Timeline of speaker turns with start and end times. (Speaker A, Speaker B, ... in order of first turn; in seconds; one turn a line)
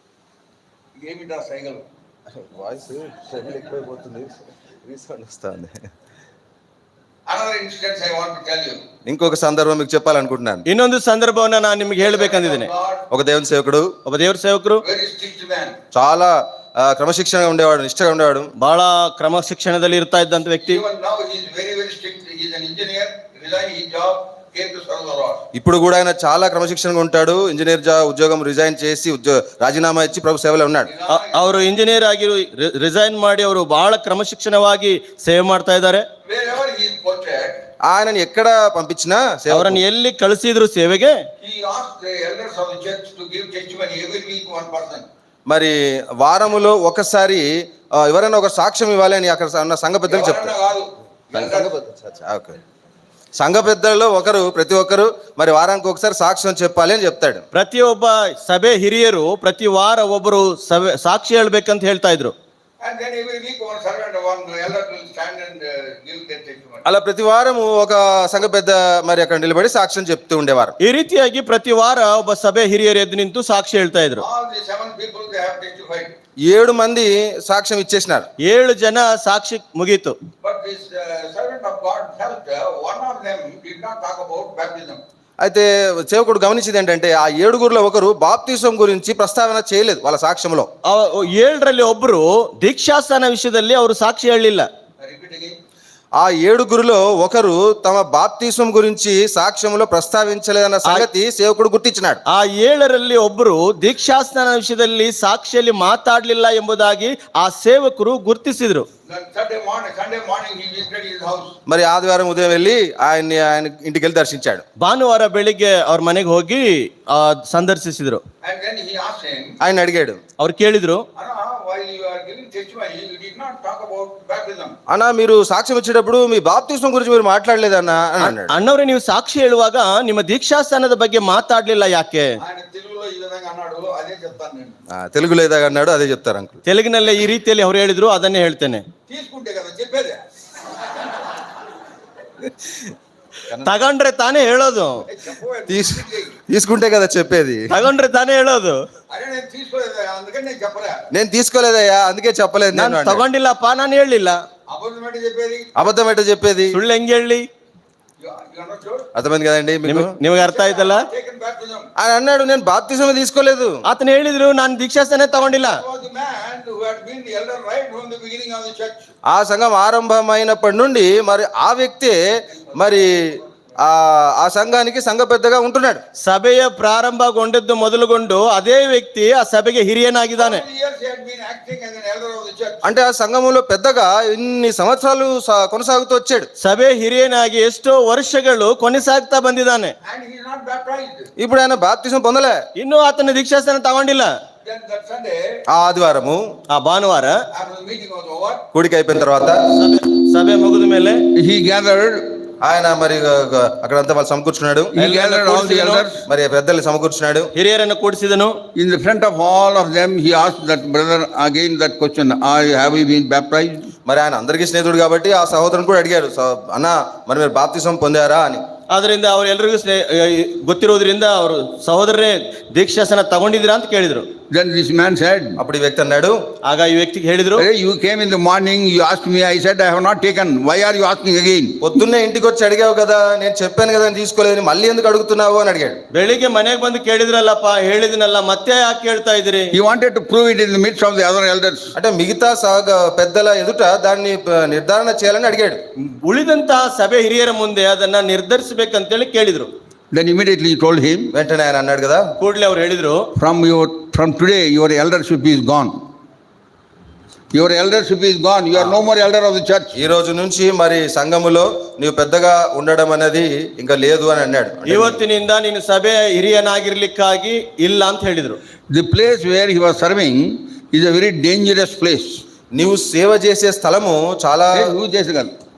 Speaker A: 1.0-1.8
Speaker B: 2.3-5.8
Speaker A: 7.3-8.8
Speaker B: 9.1-10.6
Speaker C: 10.7-12.7
Speaker A: 12.0-13.1
Speaker B: 13.1-13.9
Speaker C: 14.1-14.8
Speaker A: 14.8-15.8
Speaker B: 15.9-18.5
Speaker C: 18.6-20.8
Speaker A: 20.6-25.4
Speaker B: 25.5-30.9
Speaker A: 30.9-31.5
Speaker C: 31.1-36.0
Speaker A: 36.2-37.6
Speaker B: 37.9-39.8
Speaker C: 39.5-41.2
Speaker A: 41.4-45.1
Speaker B: 45.5-50.5
Speaker A: 50.1-51.7
Speaker B: 51.3-52.6
Speaker B: 53.4-57.4
Speaker C: 57.5-62.3
Speaker A: 62.8-66.8
Speaker B: 66.8-70.8
Speaker C: 70.8-74.2
Speaker A: 74.2-76.1
Speaker B: 76.5-78.3
Speaker C: 78.4-80.2
Speaker A: 80.4-85.0
Speaker B: 85.4-90.7
Speaker C: 90.8-94.7
Speaker A: 95.0-95.6
Speaker B: 96.2-102.2
Speaker C: 102.3-108.9
Speaker A: 109.1-111.5
Speaker B: 111.7-114.6
Speaker C: 114.8-118.2
Speaker A: 118.4-119.5
Speaker B: 119.6-120.2
Speaker C: 120.4-121.0
Speaker A: 121.2-124.8
Speaker B: 124.9-128.5
Speaker C: 128.2-132.4
Speaker A: 132.4-134.8
Speaker B: 134.9-136.6
Speaker C: 136.7-138.8
Speaker A: 139.1-140.2
Speaker C: 143.6-145.0
Speaker A: 145.1-146.4
Speaker B: 145.7-147.7
Speaker C: 147.7-148.8
Speaker A: 149.1-151.1
Speaker B: 151.1-153.2
Speaker C: 152.7-154.4
Speaker A: 154.7-155.7
Speaker B: 155.8-156.8
Speaker C: 156.7-157.4
Speaker A: 158.2-159.1
Speaker B: 159.1-160.2
Speaker C: 159.8-161.1
Speaker A: 160.3-161.9
Speaker B: 162.0-163.8
Speaker C: 163.8-165.8
Speaker A: 165.5-169.1
Speaker B: 169.3-172.2
Speaker A: 172.5-173.4
Speaker B: 172.7-176.0
Speaker C: 176.2-180.6
Speaker A: 180.3-182.9
Speaker B: 182.8-186.5
Speaker C: 186.6-189.9
Speaker A: 190.0-191.3
Speaker B: 191.4-192.6
Speaker C: 192.8-194.3
Speaker A: 194.6-195.4
Speaker B: 195.7-196.4
Speaker C: 196.7-197.4
Speaker A: 197.5-198.6
Speaker B: 198.7-199.7
Speaker C: 199.7-201.2
Speaker A: 201.3-202.4
Speaker B: 202.6-204.9
Speaker A: 204.9-206.2
Speaker C: 205.0-206.1
Speaker B: 206.2-207.5
Speaker C: 207.5-208.6
Speaker A: 208.7-213.9
Speaker B: 214.1-218.6
Speaker C: 218.9-224.3
Speaker A: 224.5-225.6
Speaker B: 225.6-226.4
Speaker C: 226.7-227.7
Speaker A: 227.6-231.8
Speaker B: 231.8-236.0
Speaker C: 236.1-239.7
Speaker A: 239.7-241.9
Speaker B: 241.9-245.8
Speaker C: 246.0-249.7
Speaker A: 250.1-251.3
Speaker B: 251.3-252.2
Speaker C: 252.4-253.2
Speaker A: 253.4-256.0
Speaker A: 257.5-259.9
Speaker B: 259.9-265.2
Speaker C: 264.9-268.6
Speaker A: 268.9-272.4
Speaker B: 272.7-274.9
Speaker A: 274.7-275.5